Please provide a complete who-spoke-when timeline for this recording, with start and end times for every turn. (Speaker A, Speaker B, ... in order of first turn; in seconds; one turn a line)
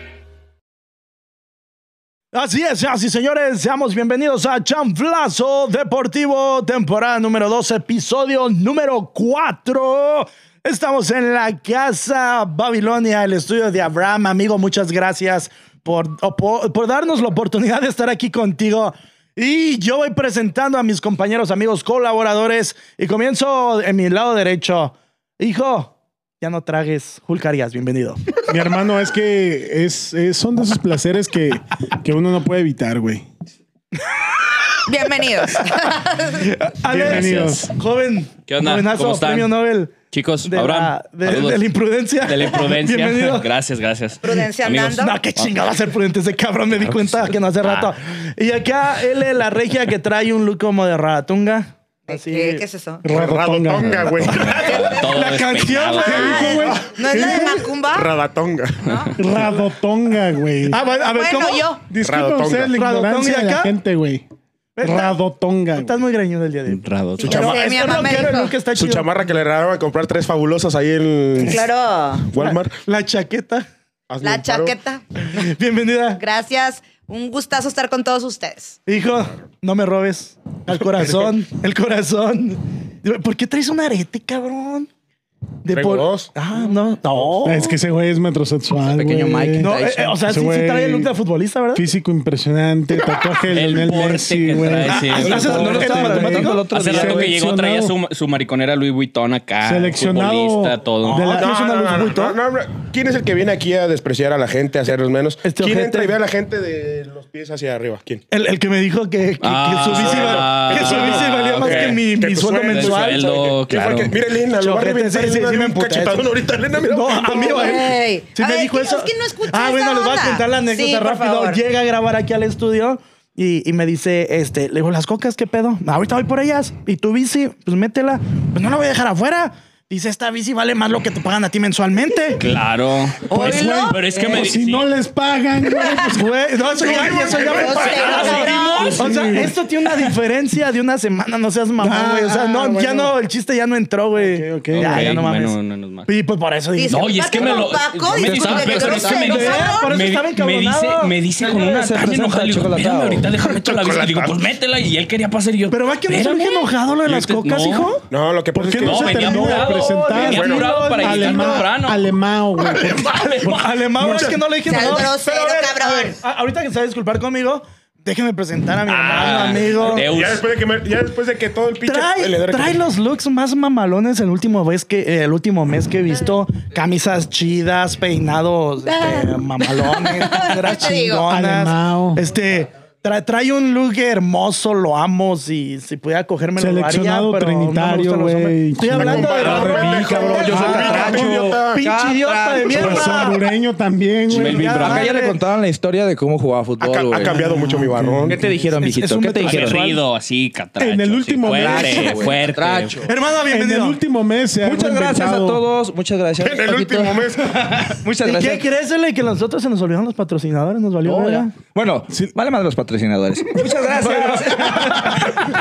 Speaker A: 2.3-28.3
Speaker B: 28.5-33.2
Speaker C: 34.9-36.5
Speaker A: 35.5-39.9
Speaker B: 36.8-37.7
Speaker D: 36.9-37.6
Speaker D: 38.5-39.5
Speaker D: 40.1-41.7
Speaker A: 40.4-43.5
Speaker D: 42.2-45.6
Speaker C: 44.2-45.2
Speaker A: 44.9-52.6
Speaker D: 46.8-47.9
Speaker C: 52.1-53.0
Speaker B: 53.0-54.4
Speaker E: 53.0-54.7
Speaker D: 54.2-56.5
Speaker A: 54.3-56.8
Speaker C: 54.5-55.0
Speaker C: 55.9-58.1
Speaker B: 56.0-57.8
Speaker E: 56.6-57.2
Speaker E: 57.8-59.1
Speaker B: 59.2-60.8
Speaker A: 60.7-61.7
Speaker C: 61.0-61.9
Speaker B: 61.9-64.2
Speaker E: 62.0-62.7
Speaker A: 62.7-63.8
Speaker A: 64.8-65.1
Speaker B: 64.8-65.9
Speaker A: 65.7-69.1
Speaker F: 66.7-67.5
Speaker C: 67.2-68.5
Speaker E: 67.2-71.7
Speaker C: 71.4-72.3
Speaker E: 72.3-72.7
Speaker A: 72.3-73.7
Speaker E: 74.1-74.8
Speaker C: 74.2-75.0
Speaker A: 75.2-76.2
Speaker C: 76.2-78.8
Speaker A: 78.9-84.9
Speaker A: 85.6-87.7
Speaker E: 85.7-86.3
Speaker B: 87.4-89.7
Speaker F: 88.9-90.3
Speaker A: 89.6-91.8
Speaker B: 90.2-91.1
Speaker B: 91.7-97.9
Speaker D: 93.5-101.2
Speaker A: 94.9-96.7
Speaker F: 95.2-97.3
Speaker B: 99.6-101.5
Speaker A: 101.1-102.3
Speaker E: 101.3-108.2
Speaker A: 105.4-106.2
Speaker A: 108.3-113.3
Speaker D: 109.4-112.0
Speaker E: 109.9-117.9
Speaker D: 112.6-114.1
Speaker A: 114.6-116.3
Speaker A: 116.8-132.4
Speaker C: 117.3-121.6
Speaker D: 132.4-134.9
Speaker C: 133.3-134.2
Speaker B: 133.3-137.4
Speaker A: 136.0-147.7
Speaker C: 136.9-139.1
Speaker D: 137.1-139.0
Speaker E: 137.3-138.1
Speaker B: 138.5-139.6
Speaker B: 141.8-143.1
Speaker B: 144.1-145.2
Speaker D: 144.7-146.1
Speaker C: 146.8-150.0
Speaker D: 146.9-157.9
Speaker F: 148.1-149.4
Speaker A: 149.1-151.2
Speaker F: 151.4-153.3
Speaker E: 153.3-154.5
Speaker A: 155.7-158.0
Speaker E: 158.1-159.4
Speaker B: 158.5-164.4
Speaker D: 158.8-162.0
Speaker A: 159.2-161.7
Speaker E: 160.3-160.6
Speaker A: 162.8-170.1
Speaker D: 163.2-163.5
Speaker E: 164.0-164.3
Speaker C: 164.6-166.2
Speaker D: 168.8-170.5
Speaker E: 169.9-172.8
Speaker A: 171.8-193.4
Speaker C: 178.8-181.3
Speaker B: 181.3-182.2
Speaker B: 186.6-191.3
Speaker E: 188.9-191.8
Speaker F: 190.0-193.3
Speaker B: 192.7-194.8
Speaker D: 194.3-195.1
Speaker A: 194.3-195.4
Speaker F: 194.8-197.4
Speaker E: 196.8-198.5
Speaker B: 197.2-198.5
Speaker F: 198.2-199.8
Speaker A: 198.8-200.0
Speaker D: 199.4-203.1
Speaker B: 200.8-202.3
Speaker F: 201.4-203.1
Speaker A: 203.0-204.0
Speaker B: 203.5-205.6
Speaker F: 204.6-208.6
Speaker E: 206.4-207.8
Speaker A: 208.2-211.5
Speaker F: 211.0-215.3
Speaker B: 212.1-212.3
Speaker A: 214.0-215.2
Speaker B: 214.6-215.4